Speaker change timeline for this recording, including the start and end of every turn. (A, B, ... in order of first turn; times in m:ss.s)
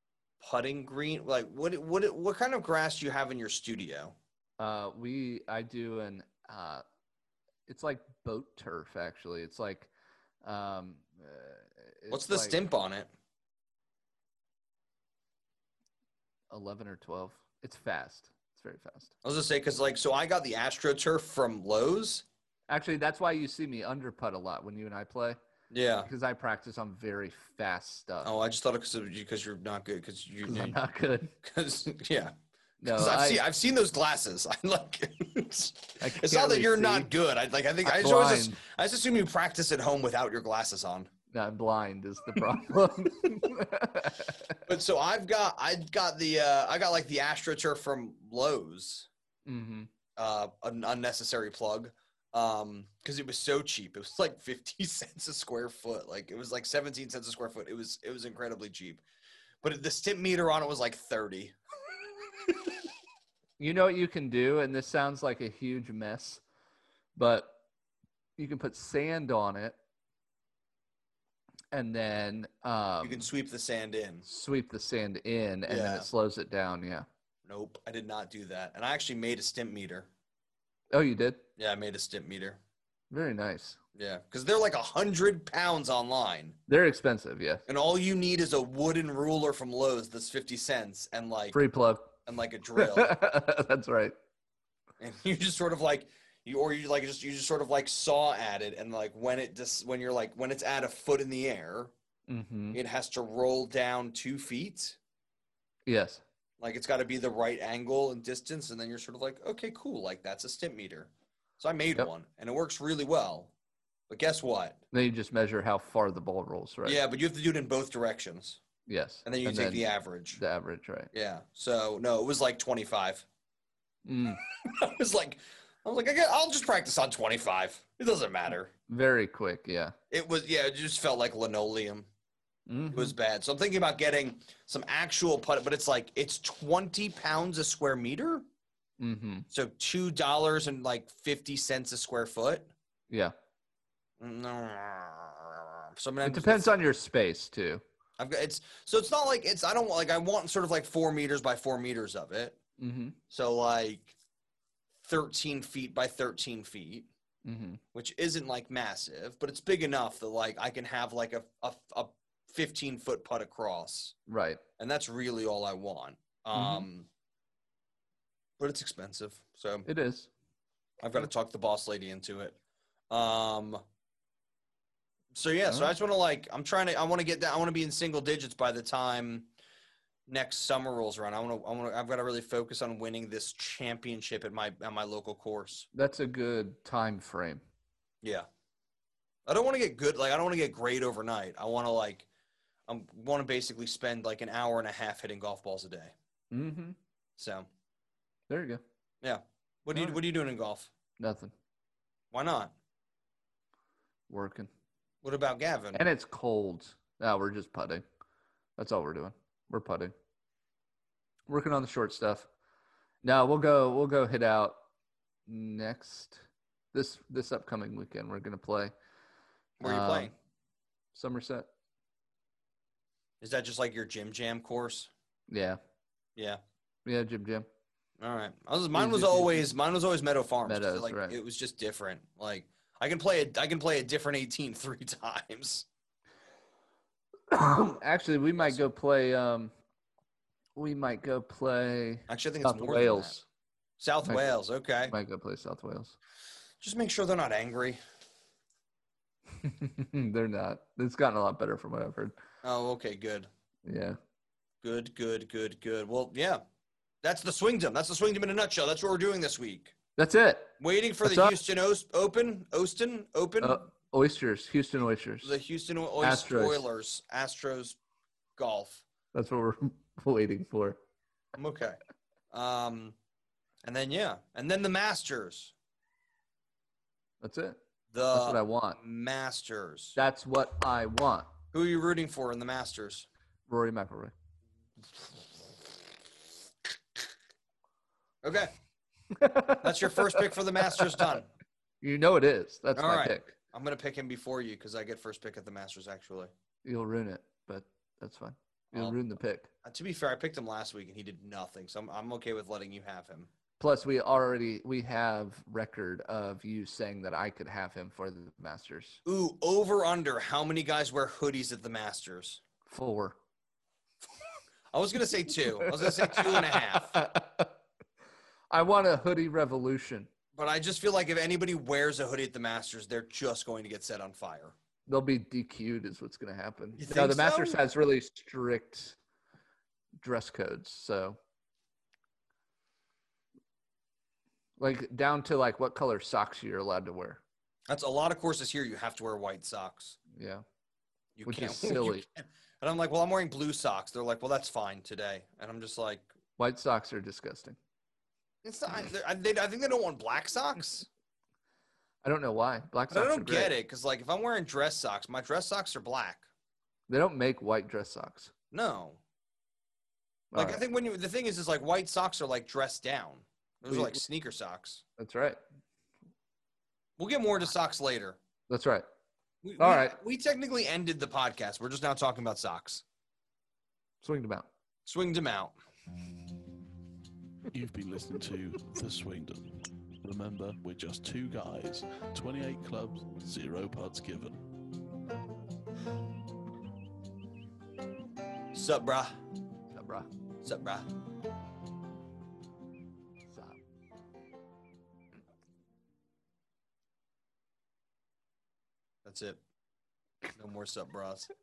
0:00.4-0:04.2 A
0:04.6-0:06.8 B
0:07.7-0:09.9 B
0:10.4-0:12.6 B
0:12.1-0:13.1 A
0:16.5-0:19.1 B
0:19.2-0:22.2 A
0:22.7-0:25.4 B
0:25.7-0:26.1 A
0:26.0-0:28.3 B
0:28.2-0:30.8 A
0:30.4-0:31.3 B
0:31.4-0:32.3 A
0:32.8-0:33.4 B
0:32.8-0:41.1 A
0:36.0-0:37.1 B
0:37.8-0:38.6 B
0:41.3-0:44.6 B
0:44.6-0:49.1 A
0:49.4-0:49.9 B
0:50.2-0:59.0 A
0:59.6-1:01.6 A
1:03.6-1:06.4 B
1:07.2-1:07.6 B
1:08.4-1:09.8 B
1:11.7-1:13.3 B
1:13.0-1:14.2 A
1:14.2-1:17.1 B
1:15.7-1:16.1 A
1:17.5-1:20.1 A
1:20.9-1:21.4 B
1:21.6-1:22.6 A
1:23.1-1:23.8 B
1:24.0-1:26.6 A
1:26.7-1:27.6 B
1:27.7-1:31.6 A
1:31.5-1:32.2 B
1:32.2-1:33.2 A
1:32.8-1:34.1 B
1:35.0-1:41.9 A
1:42.3-1:42.8 B
1:42.7-1:45.0 A
1:45.8-1:46.2 B
1:46.6-1:53.5 A
1:54.1-1:54.8 A
1:54.9-1:57.0 B
1:56.8-1:58.6 A
1:58.9-2:01.1 B
1:59.2-2:00.4 A
2:01.1-2:03.2 A
2:04.0-2:04.4 B
2:04.6-2:08.7 A
2:08.9-2:09.9 B
2:10.1-2:12.1 A
2:12.7-2:13.1 B
2:12.9-2:18.4 A
2:19.0-2:19.5 B
2:19.5-2:22.7 A
2:23.1-2:23.3 B
2:24.2-2:26.7 A
2:26.2-2:27.8 B
2:28.2-2:32.6 A
2:32.8-2:33.2 B
2:33.3-2:34.1 A
2:35.0-2:37.1 A
2:37.4-2:37.8 B
2:37.9-2:44.2 A
2:44.3-2:44.6 B
2:44.8-2:47.1 A
2:46.5-2:46.9 B
2:48.6-2:49.9 A
2:49.8-2:50.3 B
2:51.0-2:52.6 A
2:53.1-2:53.8 A
2:55.3-2:59.5 A
2:55.7-2:55.9 B
3:00.3-3:05.9 A
3:05.9-3:07.6 B
3:08.2-3:08.5 A
3:09.4-3:12.3 A
3:12.9-3:16.1 A
3:16.5-3:17.0 B
3:17.4-3:17.7 A
3:18.5-3:18.8 B
3:19.2-3:20.9 A
3:19.9-3:20.2 B
3:21.2-3:21.5 B
3:22.3-3:22.7 A
3:24.3-3:24.7 B
3:25.2-3:26.0 A
3:25.9-3:28.0 B
3:28.8-3:30.1 B
3:31.5-3:32.5 B
3:33.2-3:34.8 B
3:35.4-3:38.9 B
3:39.8-3:40.3 A
3:39.8-3:40.3 B
3:41.1-3:41.7 B
3:43.4-3:45.1 A
3:45.5-3:45.8 B
3:46.4-3:46.6 A
3:47.0-3:47.7 B
3:48.2-3:55.8 A
3:48.9-3:49.7 B
3:50.6-3:51.4 B
3:57.5-3:59.7 B
4:00.8-4:03.4 B
4:02.3-4:03.4 A
4:04.0-4:05.2 A
4:04.2-4:06.2 B
4:06.8-4:08.0 A
4:09.6-4:12.3 B
4:12.6-4:13.5 A
4:13.8-4:14.2 B
4:14.8-4:16.6 A
4:17.2-4:19.9 A
4:20.2-4:21.6 B
4:20.8-4:23.8 A
4:23.6-4:25.5 B
4:25.4-4:28.0 A
4:26.2-4:26.8 B
4:28.6-4:29.0 A
4:29.3-4:31.0 B
4:31.5-4:32.0 A
4:32.5-4:33.1 A
4:33.8-4:35.7 A
4:37.4-4:37.8 B
4:38.1-4:40.2 A
4:38.3-4:39.0 B
4:40.2-4:41.5 B
4:41.7-4:43.3 A
4:43.7-4:44.3 B
4:48.4-4:48.7 A
4:49.3-4:51.4 B
4:49.8-4:51.5 A
4:52.0-4:53.5 B
4:52.9-4:56.5 A
4:56.8-4:59.7 B
4:59.8-5:03.5 A
5:03.8-5:09.2 B
5:09.2-5:12.6 A
5:12.9-5:13.4 B
5:14.9-5:17.2 A
5:15.8-5:17.7 B
5:18.7-5:20.3 B
5:20.6-5:24.7 A
5:25.1-5:29.2 B
5:27.0-5:27.8 A
5:30.2-5:31.4 B
5:34.8-5:37.4 B
5:37.9-5:40.2 A
5:40.3-5:40.6 B
5:41.4-5:46.3 A
5:41.4-5:42.2 B
5:46.6-5:47.8 B
5:48.6-5:51.1 A
5:52.2-5:53.7 B
5:53.1-5:56.5 A
5:57.1-5:58.5 B
5:58.7-5:59.2 A
6:00.5-6:00.8 B
6:00.5-6:05.0 A
6:03.8-6:04.2 B
6:05.2-6:05.6 B
6:07.2-6:08.4 A
6:08.7-6:09.0 B
6:09.6-6:13.0 A
6:09.8-6:10.2 B
6:14.2-6:14.7 B
6:15.0-6:15.8 A
6:17.7-6:24.6 C
6:28.7-6:29.3 A
6:29.9-6:30.3 B
6:30.6-6:31.1 A
6:33.5-6:33.8 B
6:39.2-6:39.6 A
6:40.5-6:41.5 A